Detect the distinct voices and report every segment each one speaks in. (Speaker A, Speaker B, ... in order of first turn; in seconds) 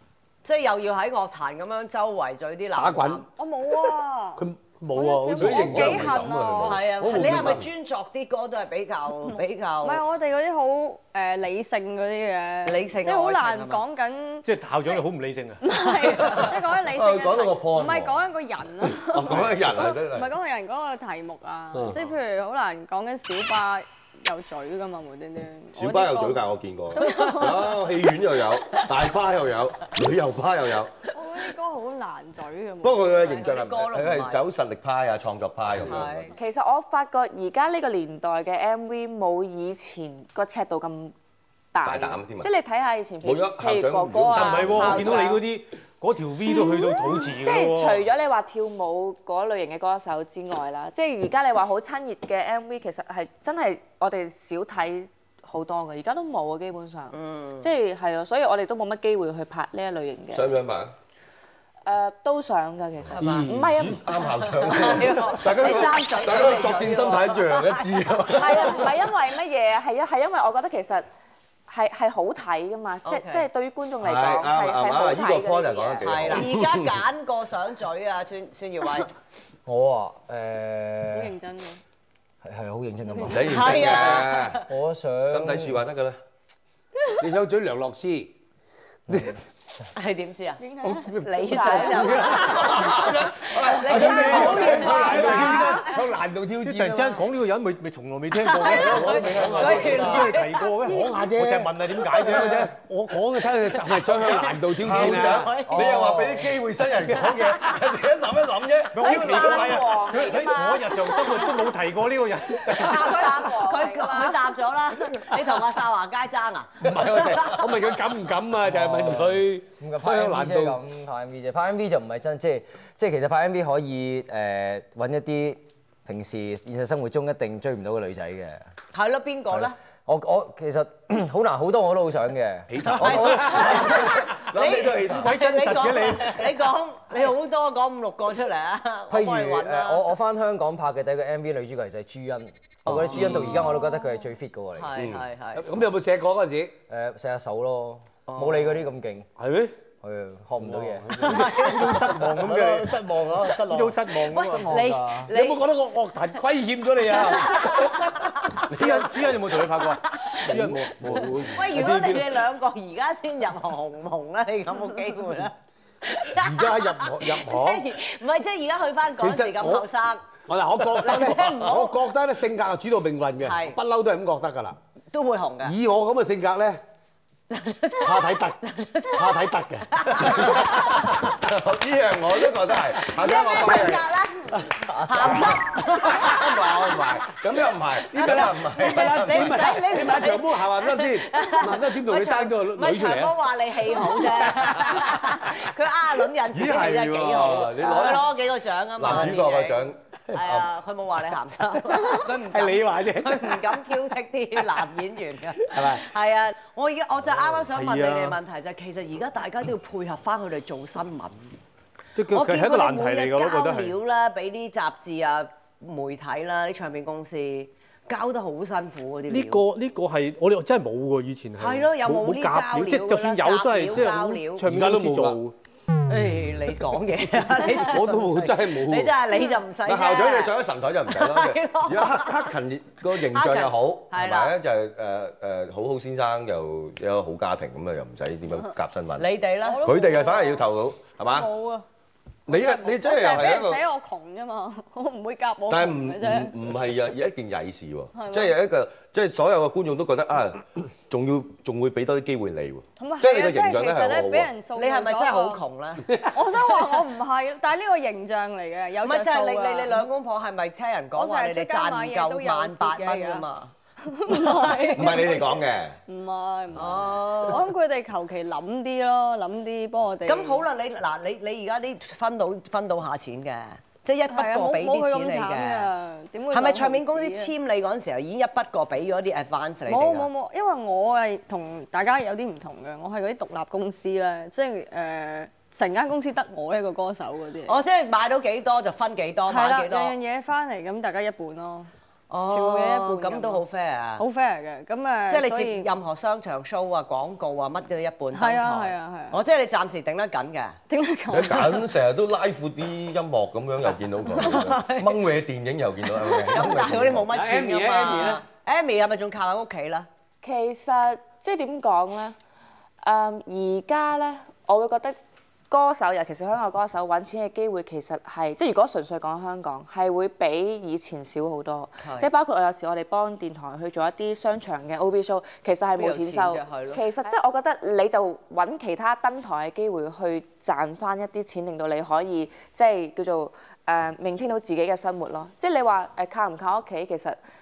Speaker A: 0.4-3.2, 6.6-10.0, 12.7-13.8, 15.9-16.5, 33.2-34.4, 35.9-36.3, 57.1-57.7, 63.1-63.5, 64.3-68.8, 73.0-73.5, 76.0-79.1, 83.4-84.7, 90.0-90.6, 91.2-95.9, 98.3-100.7, 104.9-106.2, 112.8-117.6, 128.9-129.8, 133.0-140.1, 142.9-143.2, 144.8-145.7, 148.3-148.8, 151.2-152.0, 154.7-155.7, 157.1-158.8, 160.1-160.4, 161.5-170.3, 170.9-172.0, 173.4-173.8, 175.1-175.8, 177.5-181.3, 183.0-187.1, 188.1-211.5, 212.3-219.6, 221.6-224.7, 226.1-230.6, 231.1-232.5, 233.1-234.6, 239.2-239.9, 254.8-256.2, 259.0-263.7, 264.3-265.2, 266.7-267.6, 270.3-275.9, 276.5-280.3, 287.7-290.1, 292.3-294.2, 295.3-300.8, 304.4-305.1, 306.2-310.1, 322.0-322.3, 326.0-327.0
Speaker B: 2.8-3.2, 4.4-7.7, 63.2-63.8, 87.2-88.3, 89.1-89.4, 90.8-93.1, 93.8-97.2, 98.7-105.6, 107.1-107.6, 116.8-120.8, 132.7-133.8, 142.9-143.6, 145.6-146.7, 149.4-149.7, 150.6-154.0, 155.2-158.3, 160.4-162.4, 166.3-167.9, 169.2-174.8, 175.6-176.8, 178.0-178.6, 179.1-181.1, 185.2-185.5, 186.2-187.2, 188.1-195.3, 201.9-203.8, 205.6-206.1, 224.7-225.4, 227.7-229.2, 307.3-308.4
Speaker C: 3.3-6.9, 9.8-15.0, 15.6-28.0, 31.1-33.4, 81.1-81.8, 90.6-91.2, 95.0-95.8, 239.6-240.7, 241.2-241.8, 242.5-246.6, 248.1-248.6, 253.0-255.6, 256.3-260.1, 261.1-263.5, 264.1-270.6, 274.3-277.5, 279.9-287.8, 289.5-291.9, 292.5-293.6, 294.2-295.9, 298.3-299.4, 300.9-301.9
Speaker D: 5.4-6.3, 7.2-7.5, 16.8-18.3, 19.0-20.3, 25.8-31.0, 32.8-36.3, 41.8-42.5, 43.2-45.4, 60.3-60.9, 63.6-69.0, 74.0-76.9, 83.2-84.6, 85.3-86.2, 92.7-95.3, 98.7-99.9, 104.0-109.9, 116.9-117.4, 133.0-135.4, 143.2-143.7, 180.3-180.7, 181.2-184.1, 185.2-185.6, 186.2-189.8, 196.5-198.3, 199.0-200.7, 229.9-239.3, 239.8-241.5, 242.5-243.8, 245.7-254.5, 264.9-266.0, 301.3-307.3
Speaker E: 14.5-15.6, 44.3-48.0, 96.6-102.7, 108.9-113.2, 135.1-136.6, 151.2-152.9, 153.7-154.9, 158.7-161.4, 207.7-208.4, 212.2-214.0, 219.3-225.6
Speaker F: 36.3-41.1, 41.7-45.5, 46.7-60.6, 61.9-64.9, 68.3-71.1, 71.7-76.4, 91.5-92.7, 95.2-95.6, 109.0-111.4, 112.7-114.5, 310.4-312.4, 313.0-315.2, 315.7-337.4
Speaker G: 79.7-81.3, 82.4-85.8, 105.7-106.4, 118.7-128.6, 130.1-133.4, 139.1-145.0, 146.9-149.3, 150.0-151.4, 154.3-155.3